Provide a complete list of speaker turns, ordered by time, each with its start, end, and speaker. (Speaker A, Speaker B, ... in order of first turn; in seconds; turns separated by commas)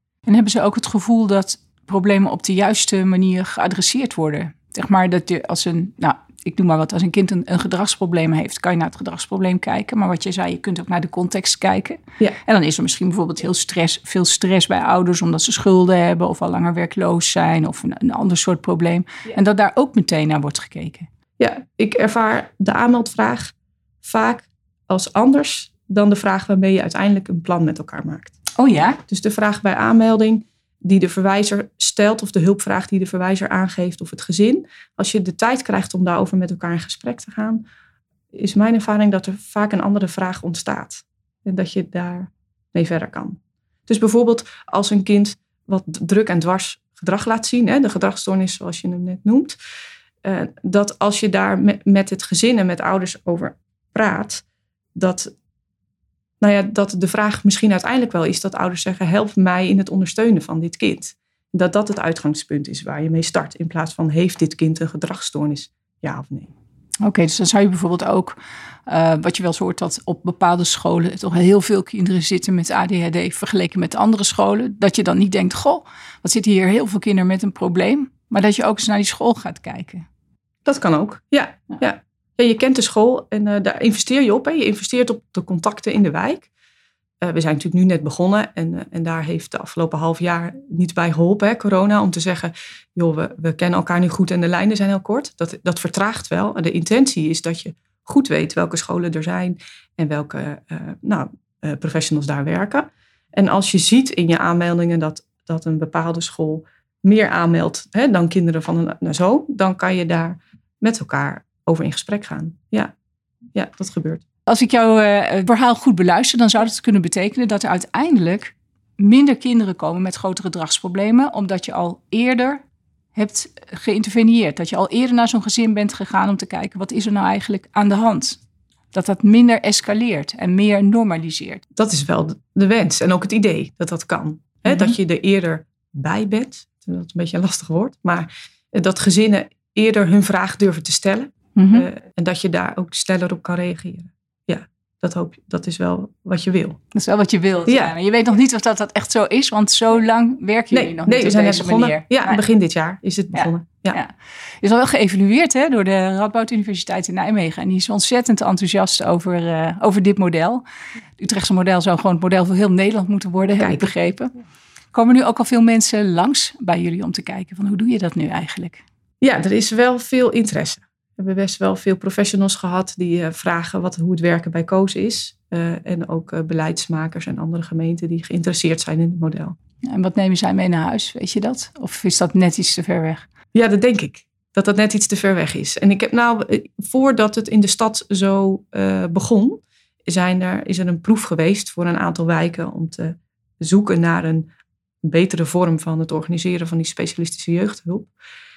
Speaker A: 0.3-21.1, Speaker B: 21.4-28.4, Speaker A: 28.6-29.0, Speaker B: 29.1-37.6, Speaker B: 38.3-49.6, Speaker B: 50.2-54.4, Speaker B: 54.9-55.3, Speaker B: 56.4-66.5, Speaker A: 67.0-80.0, Speaker B: 80.6-86.5, Speaker B: 87.2-112.9, Speaker B: 113.5-114.2, Speaker A: 114.5-122.6, Speaker A: 123.1-128.4, Speaker A: 128.9-131.6, Speaker B: 131.8-146.8, Speaker A: 134.7-134.9, Speaker A: 141.6-141.9, Speaker A: 146.9-152.4, Speaker B: 147.7-147.9, Speaker B: 150.7-154.0, Speaker A: 153.3-160.6, Speaker A: 161.2-164.3, Speaker B: 163.6-163.9, Speaker A: 164.9-168.8, Speaker B: 169.2-179.6, Speaker A: 179.8-183.2, Speaker B: 183.5-194.5, Speaker B: 195.0-198.1